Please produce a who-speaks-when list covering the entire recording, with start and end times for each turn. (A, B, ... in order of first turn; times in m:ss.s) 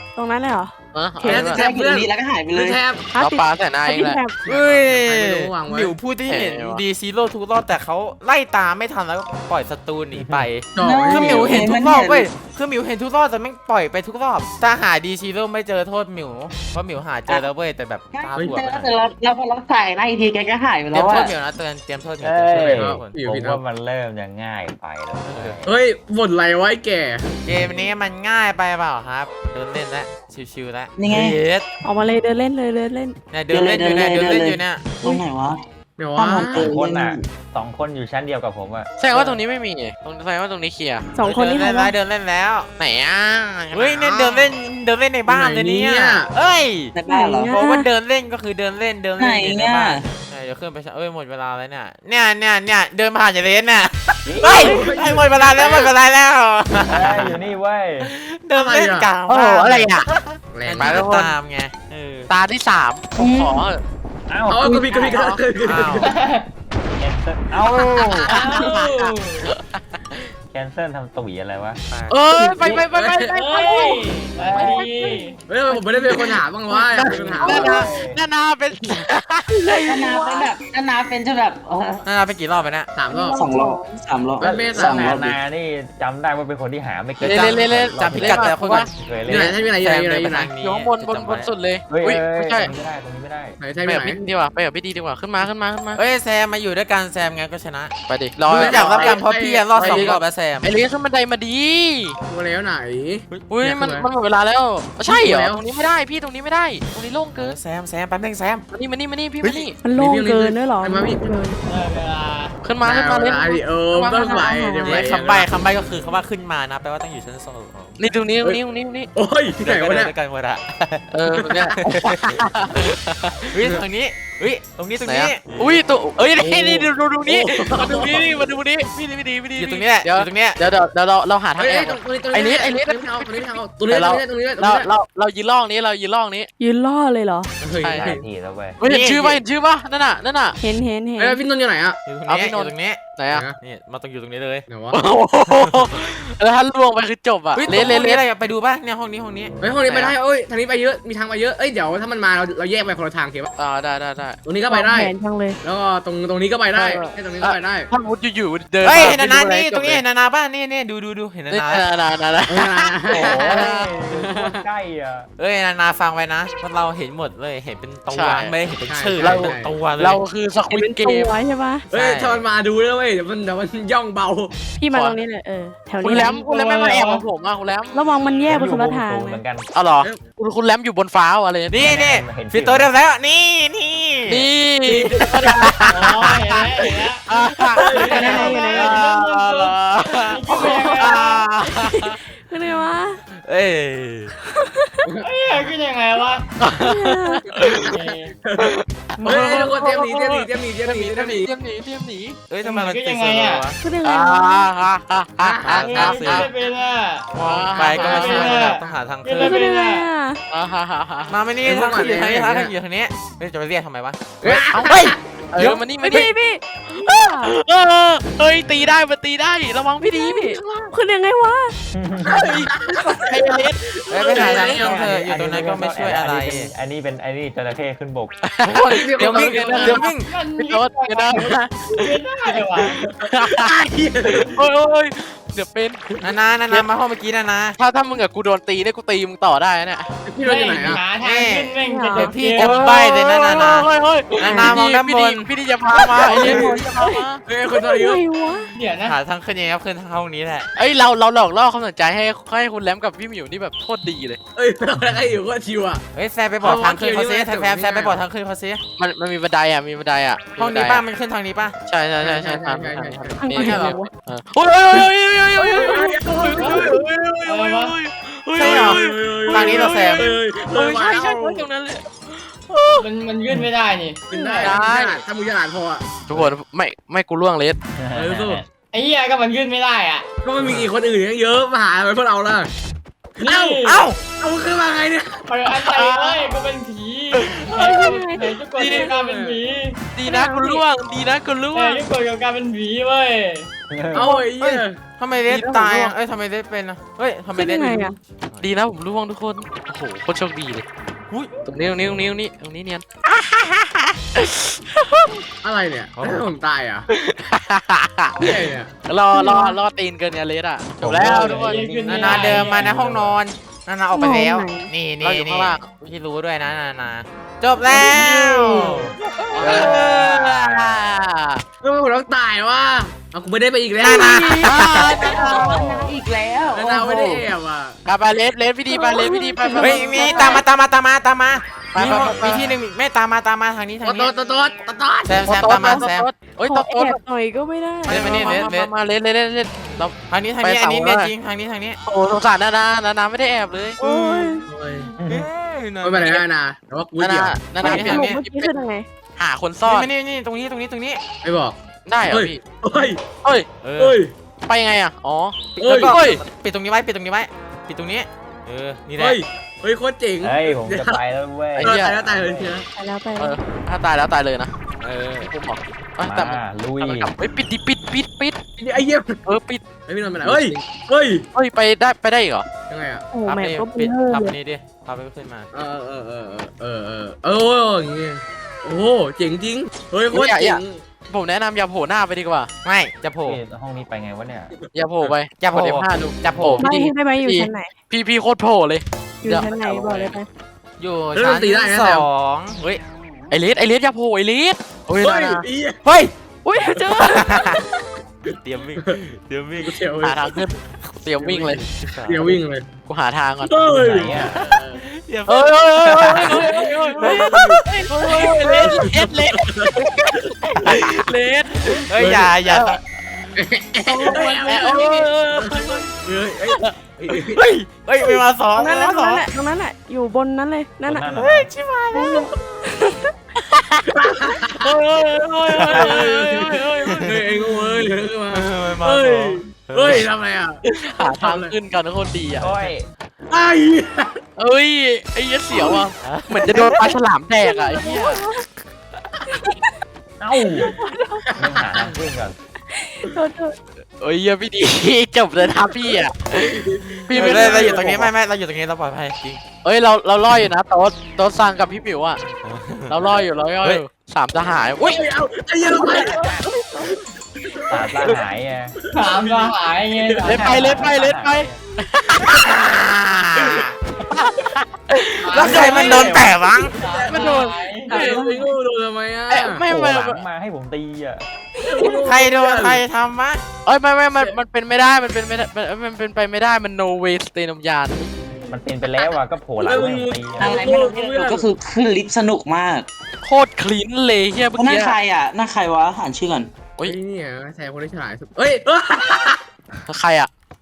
0:00.2-0:01.5 A
0:00.9-0:01.6 B
0:01.2-0:03.1 C
0:01.6-0:02.8 D
0:03.1-0:04.4 A
0:03.2-0:04.2 B
0:04.4-0:06.0 C
0:04.4-0:18.9 E
0:06.2-0:06.8 B
0:10.1-0:10.5 F
0:10.7-0:11.5 C
0:10.8-0:12.3 D
0:18.1-0:21.4 D
0:18.3-0:18.6 C
0:20.9-0:23.1 E
0:22.2-0:25.7 F
0:22.7-0:23.6 C
0:25.2-0:25.6 E
0:25.6-0:27.3 C
0:27.4-0:31.6 E
0:31.0-0:31.4 D
0:31.8-0:33.2 A
0:33.3-0:35.0 E
0:33.5-0:37.3 D
0:36.0-0:36.7 C
0:36.5-0:38.9 F
0:39.0-0:41.1 B
0:41.1-0:41.9 A
0:41.2-0:42.7 E
0:42.8-0:44.6 B
0:43.7-0:46.9 E
0:45.3-0:46.3 C
0:46.9-0:47.6 D
0:47.0-0:47.9 A
0:47.5-0:57.5 E
0:49.2-0:50.1 D
0:54.2-0:55.0 F
0:54.4-0:55.9 C
0:56.9-0:58.1 F
0:58.0-1:02.3 E
0:58.5-0:59.1 C
0:59.2-1:00.1 B
1:00.5-1:01.1 C
1:00.7-1:01.3 B
1:02.3-1:03.8 B
1:03.2-1:03.6 D
1:04.3-1:05.2 F
1:04.5-1:06.1 C
1:05.1-1:06.1 E
1:06.0-1:06.4 G
1:07.0-1:08.4 F
1:07.6-1:09.6 B
1:08.2-1:09.5 G
1:10.5-1:11.8 F
1:11.9-1:12.2 E
1:12.1-1:13.9 B
1:12.3-1:12.7 A
1:12.6-1:13.4 C
1:13.3-1:15.4 G
1:14.4-1:15.2 F
1:14.6-1:15.0 A
1:15.4-1:17.8 C
1:16.1-1:20.5 B
1:17.0-1:18.2 F
1:19.6-1:20.5 A
1:19.8-1:22.1 D
1:22.0-1:22.9 E
1:22.9-1:23.5 C
1:23.0-1:24.0 A
1:23.4-1:25.3 D
1:24.4-1:29.6 F
1:24.4-1:25.3 C
1:27.2-1:28.9 B
1:27.2-1:31.5 E
1:29.3-1:30.5 C
1:30.5-1:32.7 B
1:31.9-1:33.6 F
1:33.6-1:34.2 C
1:33.8-1:36.0 B
1:35.9-1:40.7 E
1:38.1-1:39.2 B
1:38.5-1:40.2 C
1:39.7-1:42.2 B
1:42.2-1:44.1 C
1:43.3-1:43.6 E
1:43.5-1:47.6 B
1:45.0-1:45.6 C
1:47.3-1:48.6 E
1:48.7-1:49.8 B
1:49.4-1:49.7 E
1:49.8-1:51.6 A
1:49.9-1:51.4 C
1:51.6-1:52.5 G
1:52.6-1:53.6 B
1:52.8-1:55.5 C
1:53.5-1:55.2 A
1:54.8-1:58.0 E
1:58.0-1:59.1 B
1:59.1-2:00.1 C
1:59.6-2:02.4 E
2:01.1-2:03.4 B
2:03.5-2:05.4 E
2:05.0-2:13.4 B
2:06.4-2:08.2 C
2:09.6-2:10.7 E
2:11.6-2:14.9 C
2:13.9-2:16.5 B
2:16.6-2:17.5 A
2:17.6-2:18.2 C
2:17.8-2:18.1 B
2:17.9-2:18.8 F
2:18.8-2:20.6 B
2:18.8-2:19.4 E
2:20.6-2:21.4 A
2:21.2-2:22.0 C
2:22.0-2:24.7 E
2:22.3-2:23.4 B
2:23.3-2:23.6 C
2:24.7-2:25.0 C
2:24.9-2:28.2 B
2:27.5-2:30.1 E
2:29.6-2:33.5 C
2:33.6-2:34.4 B
2:34.4-2:37.9 C
2:34.7-2:35.6 A
2:36.7-2:40.0 B
2:38.8-2:41.8 E
2:41.5-2:43.9 B
2:42.5-2:44.6 C
2:43.1-2:45.3 F
2:45.4-2:50.2 E
2:48.1-2:48.6 B
2:48.8-2:49.8 C
2:49.2-2:51.3 B
2:50.7-2:51.9 A
2:51.9-2:52.4 E
2:51.9-2:54.5 C
2:54.8-2:56.4 A
2:54.9-2:55.2 B
2:56.0-2:58.0 B
2:56.1-2:57.2 G
2:57.9-2:59.4 A
2:58.5-2:59.6 F
2:59.7-3:01.8 B
3:01.7-3:04.5 E
3:01.7-3:02.9 F
3:04.3-3:12.1 B
3:04.9-3:05.2 C
3:05.4-3:06.4 E
3:05.9-3:07.2 G
3:07.8-3:09.0 A
3:07.8-3:11.4 G
3:08.0-3:09.1 E
3:10.5-3:11.1 A
3:11.6-3:13.2 A
3:13.4-3:14.3 E
3:14.5-3:15.0 A
3:15.2-3:16.4 G
3:16.6-3:17.9 B
3:16.8-3:17.4 A
3:17.5-3:18.7 C
3:17.8-3:18.3 G
3:19.2-3:19.7 G
3:19.2-3:21.5 C
3:19.2-3:22.4 B
3:22.5-3:23.8 E
3:22.6-3:23.6 G
3:23.8-3:24.7 A
3:24.0-3:26.5 B
3:25.4-3:26.1 C
3:25.7-3:26.5 E
3:25.8-3:27.3 G
3:27.3-3:29.6 E
3:27.4-3:28.7 B
3:27.9-3:30.1 G
3:29.4-3:30.4 A
3:30.5-3:31.4 B
3:31.3-3:34.6 E
3:31.6-3:32.7 C
3:34.4-3:35.2 C
3:34.7-3:36.3 B
3:35.9-3:37.5 A
3:36.9-3:40.9 B
3:40.0-3:41.7 A
3:41.9-3:42.5 F
3:42.2-3:43.3 C
3:42.4-3:45.0 B
3:44.0-3:45.0 C
3:44.1-3:46.7 E
3:44.6-3:48.3 F
3:48.5-3:52.2 B
3:48.8-3:50.1 C
3:49.8-3:50.0 E
3:50.1-3:52.9 G
3:52.8-3:53.6 B
3:52.8-3:54.6 C
3:54.5-3:56.1 B
3:56.2-3:57.8 E
3:57.8-4:00.1 B
4:00.3-4:01.0 C
4:00.4-4:02.8 G
4:01.2-4:06.8 E
4:01.8-4:02.4 A
4:02.5-4:07.4 B
4:04.5-4:04.8 A
4:06.2-4:08.7 A
4:06.3-4:06.6 C
4:07.4-4:08.2 C
4:08.7-4:09.2 G
4:09.0-4:10.7 E
4:10.7-4:14.4 B
4:14.5-4:16.0 C
4:16.1-4:18.8 E
4:16.6-4:18.2 C
4:19.0-4:21.0 B
4:20.6-4:21.8 E
4:21.9-4:33.0 B
4:22.2-4:23.7 C
4:23.4-4:24.1 A
4:23.5-4:24.0 E
4:24.9-4:27.1 C
4:26.6-4:26.9 G
4:27.5-4:27.9 G
4:28.6-4:30.3 E
4:28.6-4:31.7 C
4:33.0-4:34.8 G
4:34.3-4:36.0 C
4:34.6-4:35.2 B
4:36.3-4:37.8 B
4:38.0-4:38.7 F
4:38.1-4:38.6 C
4:38.9-4:40.2 G
4:40.4-4:42.7 C
4:43.4-4:43.7 C
4:43.4-4:44.1 G
4:43.7-4:44.2 E
4:44.3-4:45.4 C
4:45.5-4:50.0 G
4:46.0-4:46.5 B
4:47.7-4:49.2 A
4:48.8-4:49.1 B
4:49.1-4:49.6 C
4:50.1-4:52.0 B
4:50.2-4:50.8 A
4:51.7-4:53.7 G
4:53.9-4:54.3 F
4:54.1-4:55.0 C
4:54.6-4:58.7 E
4:55.5-4:56.2 B
4:57.5-4:58.1 A
4:58.6-5:00.8 B
5:01.6-5:03.0 B
5:03.3-5:04.0 E
5:05.6-5:07.1 C
5:06.2-5:06.5 E
5:07.2-5:11.8 B
5:08.4-5:08.9 C
5:09.3-5:09.8 A
5:11.0-5:13.4 F
5:11.3-5:12.9 G
5:12.0-5:19.1 E
5:14.1-5:14.9 A
5:15.2-5:15.9 B
5:17.9-5:20.1 C
5:18.9-5:21.1 F
5:19.6-5:21.6 B
5:19.6-5:20.0 E
5:21.8-5:24.4 C
5:24.0-5:25.3 E
5:24.0-5:24.7 A
5:24.3-5:26.0 B
5:25.3-5:27.4 D
5:25.5-5:26.2 F
5:26.7-5:28.0 C
5:28.0-5:30.6 B
5:28.9-5:30.6 A
5:29.8-5:34.3 E
5:31.9-5:32.7 B
5:31.9-5:32.8 F
5:34.0-5:35.4 C
5:35.2-5:36.3 E
5:35.4-5:37.2 B
5:35.8-5:38.7 A
5:38.0-5:41.3 B
5:38.1-5:38.9 E
5:40.3-5:42.0 E
5:42.1-5:44.0 B
5:44.0-5:44.6 E
5:44.1-5:44.6 A
5:44.7-5:45.1 C
5:45.2-5:45.5 F
5:45.2-5:46.4 E
5:46.0-5:47.7 C
5:47.2-5:48.8 B
5:47.8-5:48.4 E
5:47.8-5:49.0 A
5:49.4-5:50.1 B
5:49.8-5:51.2 E
5:51.4-5:53.2 C
5:52.0-5:52.6 B
5:53.8-5:54.2 E
5:54.0-5:54.3 C
5:54.6-5:56.4 B
5:55.8-5:59.4 E
5:55.8-5:56.2 C
5:59.2-6:01.2 C
6:00.4-6:02.7 F
6:01.8-6:02.1 B
6:01.8-6:02.8 C
6:02.9-6:03.6 A
6:03.4-6:08.6 B
6:06.2-6:07.3 F
6:08.8-6:09.4 C
6:09.4-6:09.8 B
6:10.0-6:11.4 C
6:11.5-6:12.7 B
6:12.9-6:13.3 C
6:13.3-6:14.6 A
6:13.4-6:15.7 E
6:15.7-6:21.0 C
6:20.3-6:22.7 B
6:22.8-6:23.6 E
6:23.4-6:24.7 F
6:24.9-6:30.4 B
6:25.5-6:26.9 E
6:26.8-6:27.9 A
6:29.4-6:30.5 A
6:31.0-6:33.0 E
6:31.3-6:32.3 C
6:33.5-6:35.6 B
6:35.2-6:36.0 C
6:36.0-6:36.3 E
6:36.6-6:37.8 A
6:36.8-6:37.1 C
6:37.1-6:37.8 E
6:38.4-6:40.0 E
6:39.0-6:39.2 C
6:39.8-6:40.6 C
6:40.2-6:41.8 B
6:41.4-6:42.9 C
6:42.0-6:42.6 E
6:43.0-6:43.8 B
6:43.6-6:45.0 C
6:43.9-6:44.6 F
6:44.3-6:49.0 E
6:45.5-6:52.0 B
6:46.3-6:47.8 C
6:48.8-6:49.9 C
6:50.7-6:51.3 E
6:51.9-6:53.0 E
6:52.2-6:52.6 C
6:52.6-6:53.0 B
6:53.6-6:57.6 C
6:54.1-6:56.1 B
6:54.1-6:55.3 E
6:57.3-6:59.5 E
6:58.7-7:01.3 A
7:01.1-7:01.7 F
7:01.3-7:02.4 E
7:02.1-7:03.3 A
7:04.1-7:04.9 C
7:04.8-7:07.4 B
7:05.8-7:06.3 E
7:05.9-7:11.7 C
7:07.0-7:10.3 E
7:10.9-7:12.9 B
7:12.6-7:13.1 F
7:13.5-7:14.4 C
7:14.6-7:18.4 B
7:16.2-7:17.1 E
7:17.6-7:18.6 A
7:18.0-7:18.4 E
7:19.5-7:19.9 A
7:20.4-7:21.0 F
7:20.6-7:21.5 A
7:21.5-7:22.1 C
7:21.5-7:22.6 F
7:22.9-7:23.8 A
7:24.2-7:28.3 B
7:26.5-7:28.1 C
7:27.3-7:29.6 E
7:29.8-7:32.4 B
7:32.5-7:33.2 E
7:33.1-7:35.2 B
7:35.0-7:36.6 C
7:36.0-7:36.3 B
7:36.8-7:37.1 A
7:37.1-7:38.3 C
7:37.9-7:38.9 F
7:39.0-7:40.9 C
7:39.1-7:41.1 G
7:40.5-7:42.6 B
7:40.5-7:41.8 F
7:42.4-7:43.9 E
7:45.1-7:46.3 B
7:45.4-7:48.2 G
7:45.5-7:47.0 E
7:45.6-7:49.8 C
7:47.3-7:48.7 B
7:49.5-7:50.4 B
7:49.7-7:51.4 F
7:51.8-7:53.0 C
7:52.1-7:53.6 E
7:53.8-7:58.3 B
7:58.7-8:00.9 F
7:59.8-8:01.7 C
8:00.6-8:03.1 D
8:03.4-8:05.2 B
8:04.7-8:06.7 D
8:07.0-8:09.6 C
8:10.1-8:10.5 B